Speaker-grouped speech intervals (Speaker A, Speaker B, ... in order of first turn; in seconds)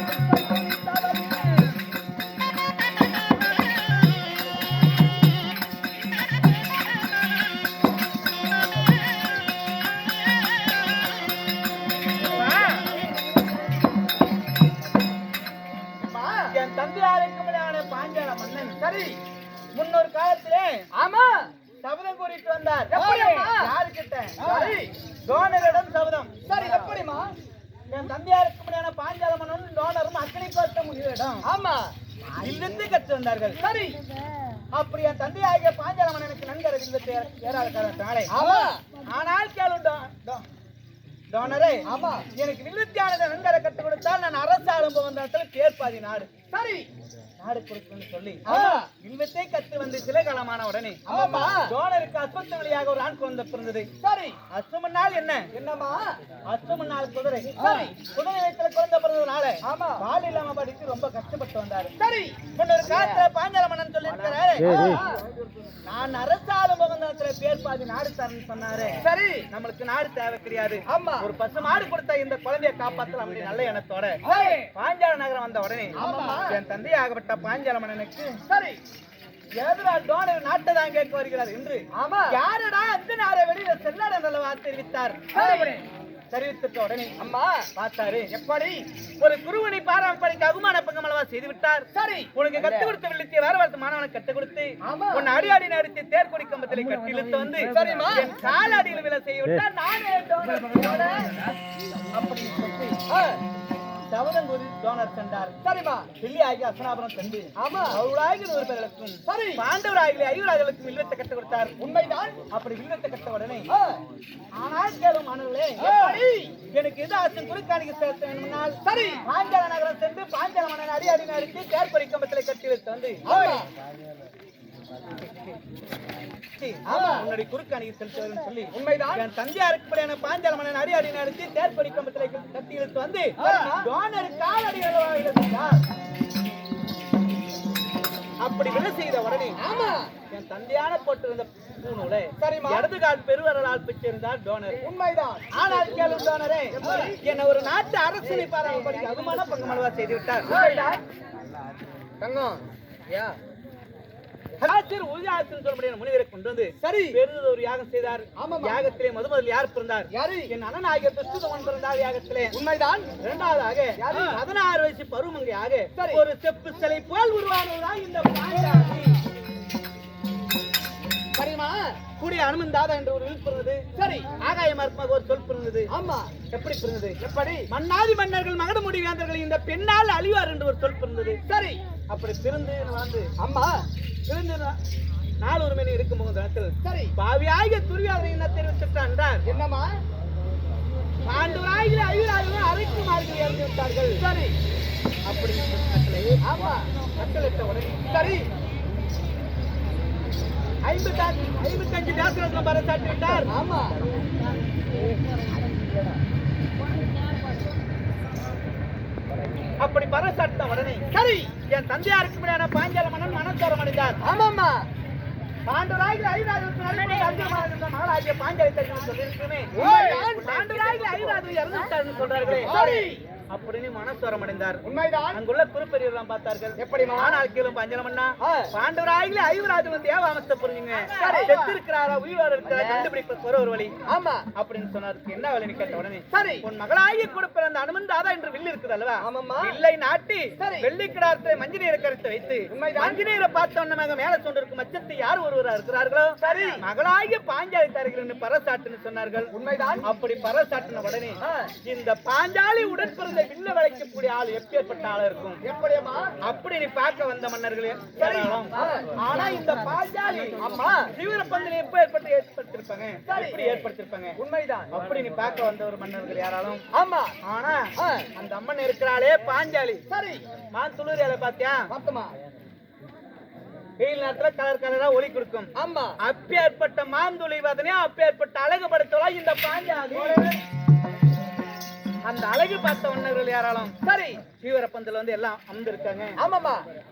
Speaker A: 0.5-1.7, 12.3-12.9, 16.5-18.8, 19.8-20.8, 21.8-26.9, 27.9-31.4, 32.4-33.6, 34.7-38.4, 39.1-40.4, 41.3-46.3, 47.4-53.9, 54.5-55.5, 56.5-61.9, 62.5-65.0, 65.8-69.0, 69.5-78.4, 79.6-85.8, 86.3-87.1, 87.8-88.3, 89.2-101.5, 102.1-103.0, 104.1-105.6, 106.2-111.8, 112.5-113.7, 114.6-116.2, 116.7-123.6, 125.3-125.6, 126.5-135.8, 138.4-139.6, 140.3-144.9, 145.5-150.6, 154.6-162.6, 163.2-169.2, 172.2-175.9, 176.5-177.2, 177.7-181.4, 182.1-183.3, 184.3-184.8, 185.4-189.4, 191.2-194.2, 195.2-198.0, 200.8-203.5, 209.8-211.1, 211.7-214.3, 215.7-224.8, 225.3-233.9, 234.6-249.5, 250.0-255.6, 256.4-264.4, 264.9-266.8, 267.4-270.0, 270.7-271.9, 274.0-280.6, 282.2-283.9, 284.5-286.3
Speaker B: 16.0-16.5, 18.8-19.2, 20.9-21.5, 22.9-23.7, 24.4-24.9, 26.4-27.3, 31.5-31.9, 33.6-34.0, 38.3-38.8, 41.9-42.3, 46.5-46.9, 48.5-48.9, 51.1-51.7, 54.0-54.4, 55.5-56.2, 57.6-57.9, 59.6-60.0, 62.0-63.3, 64.1-65.2, 69.0-69.5, 70.9-71.3, 74.2-74.7, 76.0-76.6, 78.5-78.8, 81.9-82.3, 85.3-85.8, 87.2-87.7, 88.3-88.8, 91.9-93.0, 94.8-95.3, 97.6-98.3, 100.4-101.3, 103.1-103.4, 105.6-106.1, 107.6-108.0, 109.3-109.6, 111.8-112.4, 113.7-114.0, 115.8-116.5, 118.8-119.2, 123.2-123.7, 126.9-127.2, 128.7-129.2, 133.4-133.9, 139.6-140.1, 142.4-142.9, 144.8-146.1, 146.7-147.2, 148.2-149.9, 150.4-151.0, 152.2-153.4, 156.8-157.2, 158.4-158.8, 160.1-160.5, 162.5-163.1, 164.0-164.4, 166.0-166.2, 171.3-172.0, 173.9-174.3, 175.9-176.3, 177.2-177.7, 181.5-181.8, 183.4-183.8, 186.8-187.1, 189.5-189.9, 194.2-194.5, 196.4-196.9, 198.1-198.5, 203.5-203.9, 211.1-211.5, 214.2-214.9, 219.7-221.4, 222.5-223.2, 224.8-225.4, 226.8-227.4, 228.4-228.7, 231.1-231.8, 232.6-233.1, 234.1-234.5, 236.3-236.7, 239.2-239.8, 240.6-240.9, 242.7-243.2, 246.4-246.8, 249.5-250.0, 251.4-251.7, 255.6-256.3, 258.2-259.7, 260.5-261.1, 263.2-264.9, 266.9-267.4, 268.0-268.3, 270.1-270.4, 271.9-272.3, 275.8-276.1, 280.1-280.6, 284.0-284.4, 286.4-286.8